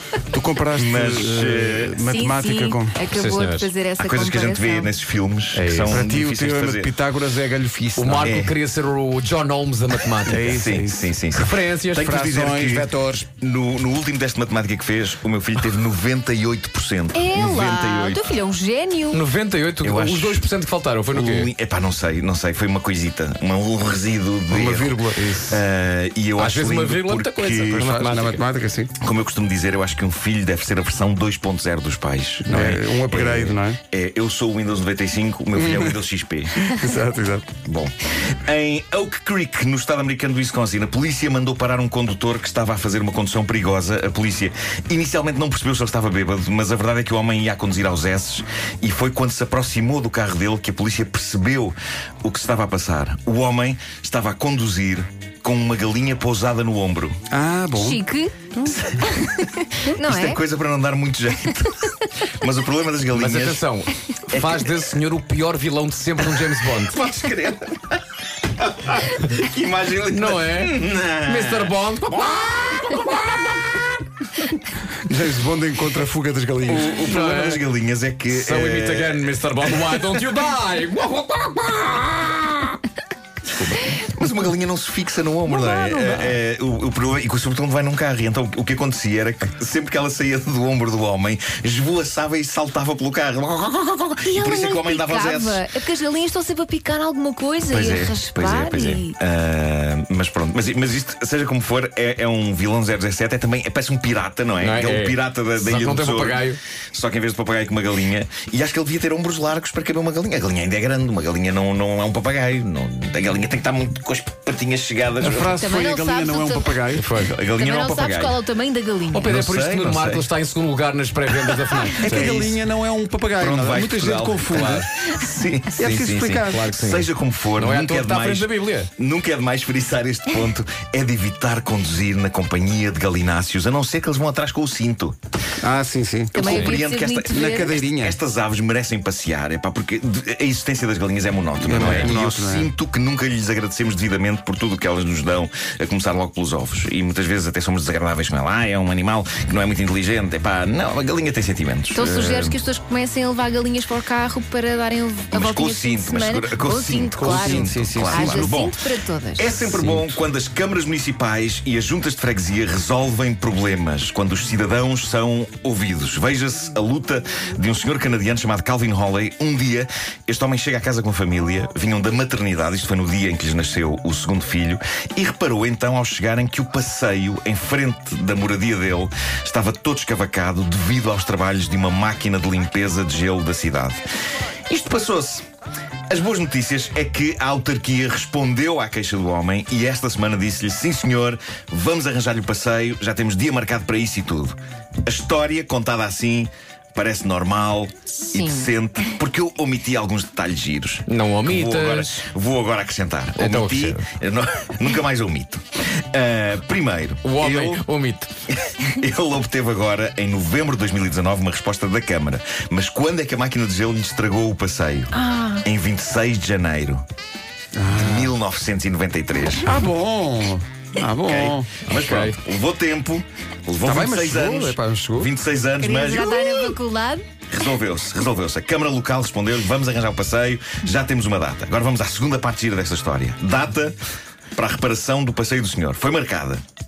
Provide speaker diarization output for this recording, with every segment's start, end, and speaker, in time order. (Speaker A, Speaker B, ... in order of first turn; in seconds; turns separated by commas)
Speaker A: 0.3-3.0, Speaker B: 0.7-2.0, Speaker C: 2.0-4.9, Speaker D: 3.1-3.7, Speaker B: 4.0-6.9, Speaker D: 5.5-6.0, Speaker A: 5.9-8.4, Speaker D: 8.0-10.6, Speaker B: 8.1-8.5, Speaker A: 10.3-11.1, Speaker B: 10.3-18.3, Speaker D: 11.3-12.1, Speaker A: 11.9-13.3, Speaker C: 17.1-19.2, Speaker D: 19.1-21.5, Speaker B: 19.8-20.4, Speaker B: 21.1-28.1, Speaker A: 24.5-25.5, Speaker D: 26.4-28.4, Speaker A: 27.7-28.9, Speaker B: 29.0-36.5, Speaker A: 32.4-33.8, Speaker A: 35.5-35.9, Speaker A: 36.6-37.5, Speaker B: 37.6-57.2, Speaker A: 57.3-58.0, Speaker C: 57.7-60.4, Speaker B: 59.9-63.6, Speaker D: 63.1-67.0, Speaker B: 64.3-64.8, Speaker B: 66.9-73.9, Speaker D: 70.1-73.4, Speaker A: 75.1-77.1, Speaker B: 76.6-80.1, Speaker D: 77.0-77.7, Speaker D: 78.3-82.8, Speaker B: 83.5-95.6, Speaker C: 85.5-86.3, Speaker C: 94.2-99.2, Speaker B: 97.7-115.6, Speaker D: 104.6-106.6, Speaker A: 115.2-117.1, Speaker C: 115.5-116.8, Speaker D: 116.9-117.4, Speaker B: 117.2-118.4, Speaker C: 117.5-119.3, Speaker D: 119.1-122.6, Speaker B: 119.2-120.3, Speaker A: 122.0-124.9, Speaker B: 123.4-125.8, Speaker D: 124.5-124.8, Speaker A: 125.8-126.7, Speaker D: 125.8-128.9, Speaker B: 126.7-135.2, Speaker A: 135.6-136.4, Speaker C: 136.3-137.8, Speaker B: 136.3-152.6, Speaker D: 136.4-136.7, Speaker A: 137.3-138.2, Speaker A: 141.6-142.7, Speaker D: 141.8-142.1, Speaker C: 151.9-159.6, Speaker B: 155.3-158.8, Speaker A: 157.2-158.6, Speaker B: 159.4-184.0, Speaker B: 184.7-185.4, Speaker B: 186.1-207.8, Speaker C: 198.3-198.7, Speaker D: 201.1-202.2, Speaker D: 203.3-204.1, Speaker D: 207.2-208.3, Speaker B: 208.5-217.0, Speaker C: 215.1-215.6, Speaker A: 217.8-218.3, Speaker B: 217.9-219.8, Speaker A: 219.6-221.7, Speaker B: 221.2-226.8, Speaker D: 221.9-222.4, Speaker A: 223.8-225.3, Speaker C: 225.8-227.2, Speaker B: 227.5-233.9, Speaker B: 234.5-236.6